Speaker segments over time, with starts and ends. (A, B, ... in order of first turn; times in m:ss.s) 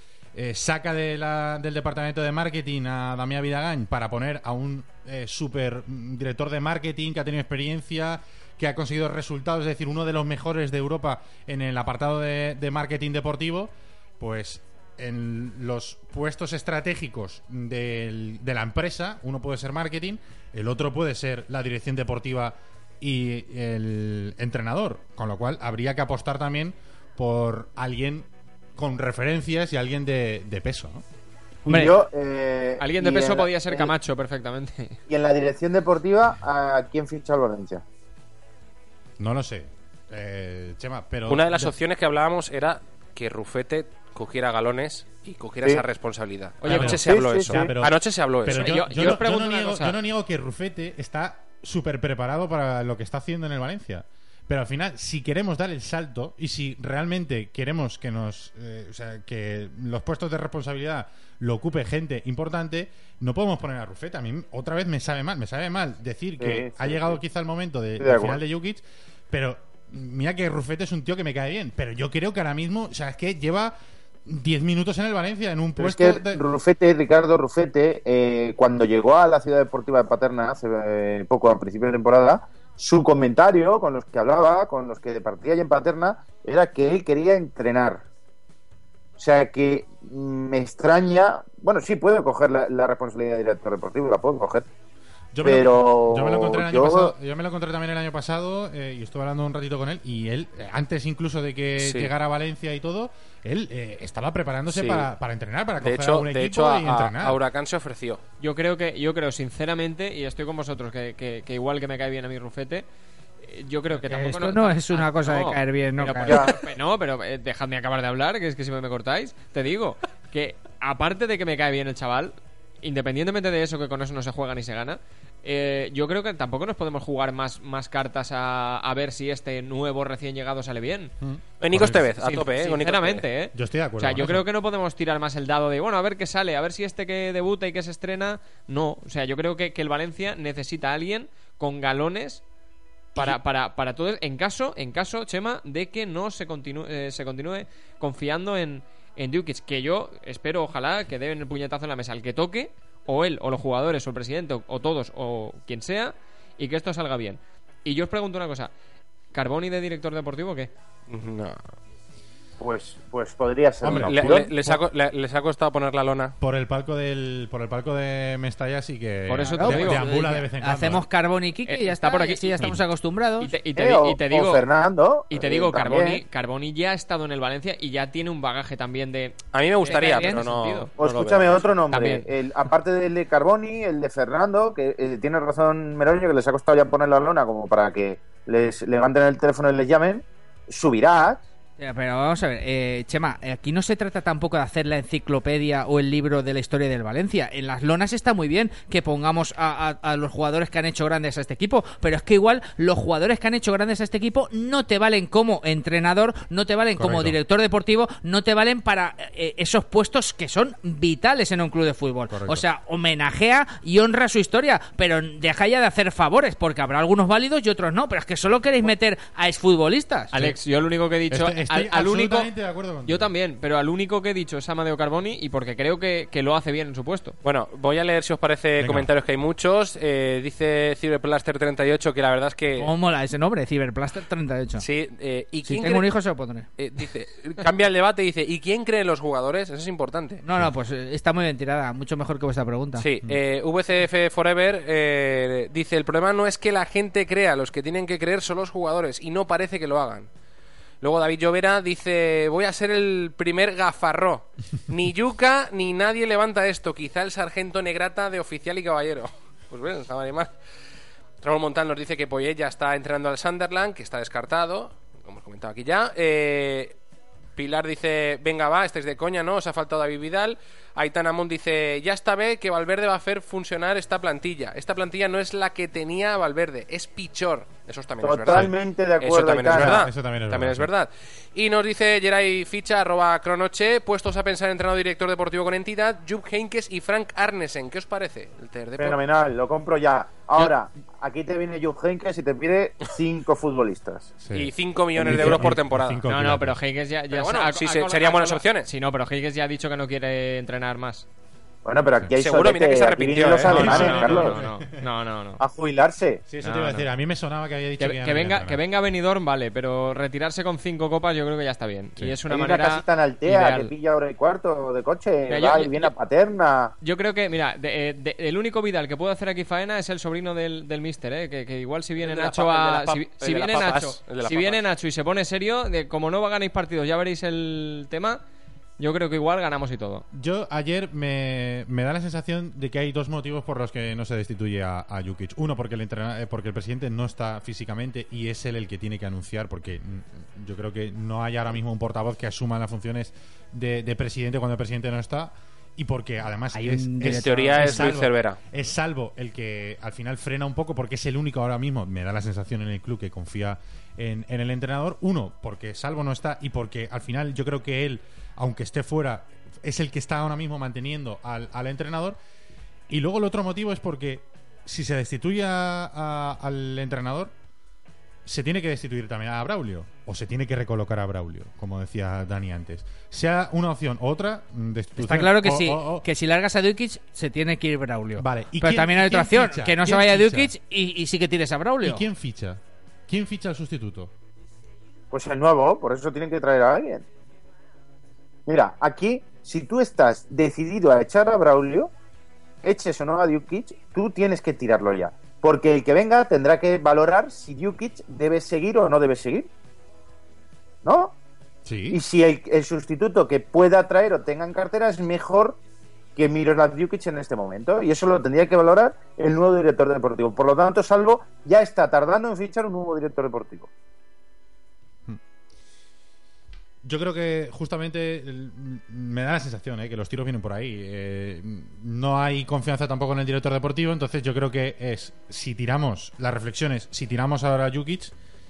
0:00.4-0:31.0 A
0:31.7-0:31.9 B
0:31.7-0:33.9 C
0:32.8-0:35.0 D
0:35.1-0:37.8 C
0:39.2-0:41.8 A
0:41.3-0:48.7 E
0:46.6-0:47.0 D
0:46.7-1:13.8 A
0:46.8-0:47.7 C
0:48.5-0:50.0 D
1:06.4-1:07.2 C
1:08.0-1:08.4 C
1:14.3-1:16.4 A
1:15.8-1:28.0 C
1:29.2-1:34.7 C
1:35.3-1:47.4 A
1:35.4-1:37.1 C
1:41.8-1:42.1 E
1:44.7-1:45.1 E
1:45.8-1:48.2 E
1:48.4-1:52.9 D
1:53.4-2:11.1 D
1:54.0-1:56.5 B
1:56.2-1:56.6 C
2:11.2-2:12.1 A
2:11.6-2:13.2 E
2:11.8-2:22.4 D
2:13.5-2:14.4 A
2:23.2-2:38.7 D
2:39.3-2:40.7 D
2:41.1-2:41.6 E
2:42.6-2:44.5 C
2:43.8-2:44.8 A
2:43.8-2:46.4 E
2:46.4-2:51.0 A
2:49.3-2:50.0 D
2:49.5-2:53.5 B
2:51.7-2:52.8 D
2:53.4-2:54.6 D
2:53.8-2:56.2 C
2:55.3-3:00.9 D
2:59.5-3:01.6 E
2:59.9-3:00.4 B
3:01.0-3:11.4 C
3:01.9-3:02.3 D
3:11.8-3:40.3 B
3:27.0-3:27.4 A
3:32.3-3:32.6 A
3:40.3-3:42.5 D
3:40.3-3:40.6 A
3:41.3-3:43.3 A
3:43.0-3:47.4 D
3:47.4-3:52.9 E
3:48.8-3:49.1 A
3:52.8-3:54.8 B
3:54.8-3:56.1 E
3:55.6-3:56.7 B
3:56.8-4:00.4 E
4:00.4-4:03.1 B
4:03.0-4:10.3 E
4:11.0-4:20.5 E
4:21.4-4:26.9 E
4:27.6-4:49.2 E
4:38.2-4:40.0 C
4:39.7-4:40.9 A
4:49.0-4:54.3 C
4:54.4-4:56.8 A
4:54.5-4:56.2 E
4:55.2-4:55.7 C
4:56.3-5:01.3 D
4:57.3-4:58.9 E
5:01.8-5:04.6 C
5:02.4-5:04.4 E
5:03.6-5:05.0 A
5:03.7-5:05.6 D
5:05.6-5:06.4 C
5:06.5-5:08.8 A
5:06.6-5:07.1 D
5:08.0-5:13.9 D
5:12.5-5:16.9 C
5:15.5-5:16.1 D
5:17.0-5:28.4 D
5:22.2-5:24.8 E
5:29.0-5:30.3 D
5:30.3-6:02.4 A
5:46.7-5:48.1 B
5:47.3-5:48.6 E
6:03.1-6:07.5 A
6:08.4-6:16.3 A
6:15.2-6:22.2 B
6:18.4-6:20.7 A
6:22.0-6:24.3 A
6:25.3-6:27.3 C
6:28.7-6:32.1 C
6:32.8-6:39.7 C
6:41.0-6:41.4 C
6:41.8-6:42.2 A
6:42.1-6:45.8 C
6:46.4-6:53.9 C
6:57.0-7:08.3 A